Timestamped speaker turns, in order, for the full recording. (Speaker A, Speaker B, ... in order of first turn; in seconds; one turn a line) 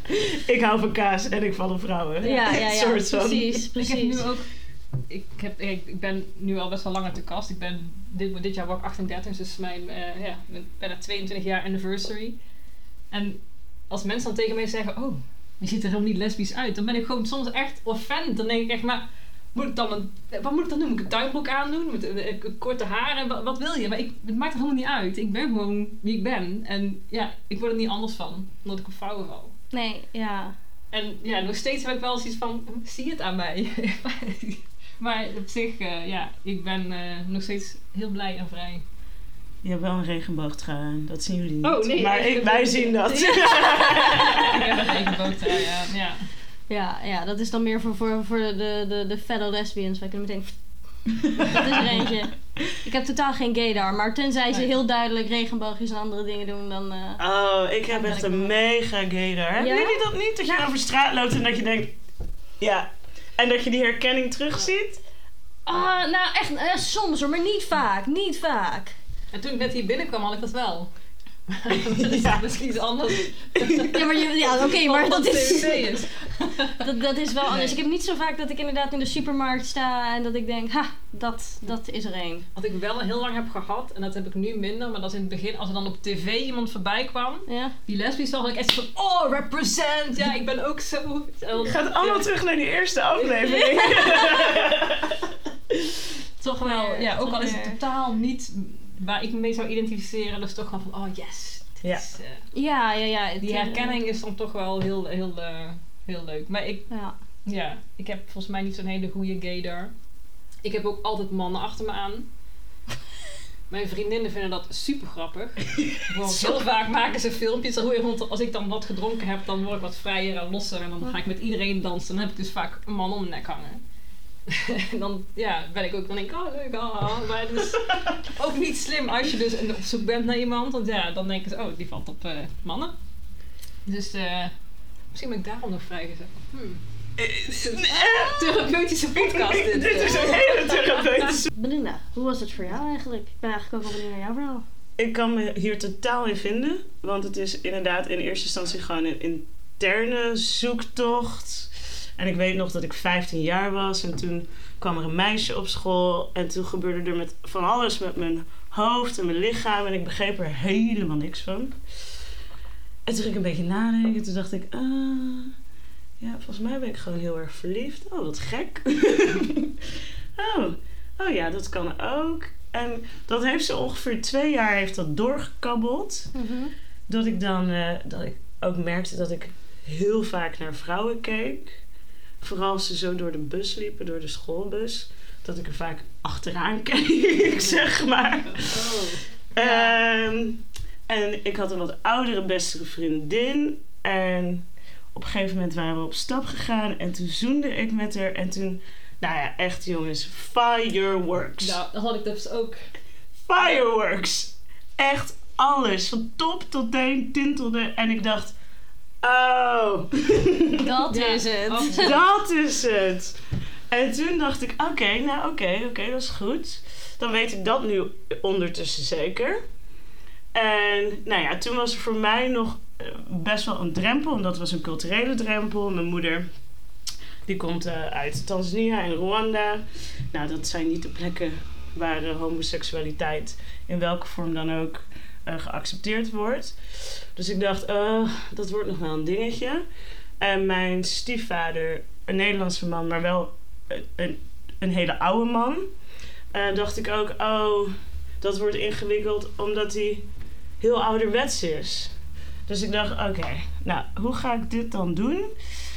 Speaker A: 0.3-3.7
Speaker B: 2.2-4.2
Speaker C: 3.8-4.5
Speaker C: 5.1-12.3
Speaker C: 13.1-29.5
Speaker B: 29.7-30.6
Speaker C: 30.9-38.8
Speaker A: 39.6-44.5
Speaker C: 41.6-43.3
Speaker B: 43.1-44.0
Speaker C: 44.2-46.3
Speaker B: 46.7-57.2
Speaker A: 57.2-62.0
Speaker B: 57.9-58.5
Speaker B: 59.6-60.0
Speaker A: 62.6-65.0
Speaker B: 65.7-68.9
Speaker C: 69.3-70.9
Speaker C: 71.5-76.8
Speaker A: 72.0-72.4
Speaker B: 73.9-75.9
Speaker B: 76.8-82.5
Speaker C: 77.5-77.8
Speaker C: 82.5-92.3
Speaker B: 87.5-87.8
Speaker A: 91.6-95.2
Speaker C: 93.2-93.8
Speaker C: 96.4-102.5
Speaker B: 96.6-97.8
Speaker B: 102.5-104.0
Speaker C: 103.4-106.9
Speaker B: 106.9-107.2
Speaker C: 107.5-109.9
Speaker C: 110.6-112.3
Speaker C: 113.7-123.8
Speaker A: 115.8-116.6
Speaker C: 124.5-132.9
Speaker C: 133.9-134.5
Speaker C: 135.1-141.3
Speaker A: 137.2-141.5
Speaker B: 141.6-144.6
Speaker A: 145.0-161.8
Speaker A: 163.1-165.5
Speaker A: 166.2-169.8
Speaker A: 170.4-176.3
Speaker B: 176.3-176.7
Speaker A: 177.1-181.8
Speaker A: 182.4-189.0
Speaker C: 188.4-190.0
Speaker A: 189.6-201.8
Speaker C: 201.6-202.9
Speaker A: 203.5-208.6
Speaker A: 209.2-210.8
Speaker B: 210.8-212.1
Speaker C: 211.1-212.2
Speaker A: 211.8-213.4
Speaker A: 213.9-219.6
Speaker A: 220.5-226.5
Speaker A: 227.4-239.8
Speaker A: 240.4-245.9
Speaker A: 246.5-250.3
Speaker A: 250.8-252.1
Speaker A: 252.7-255.5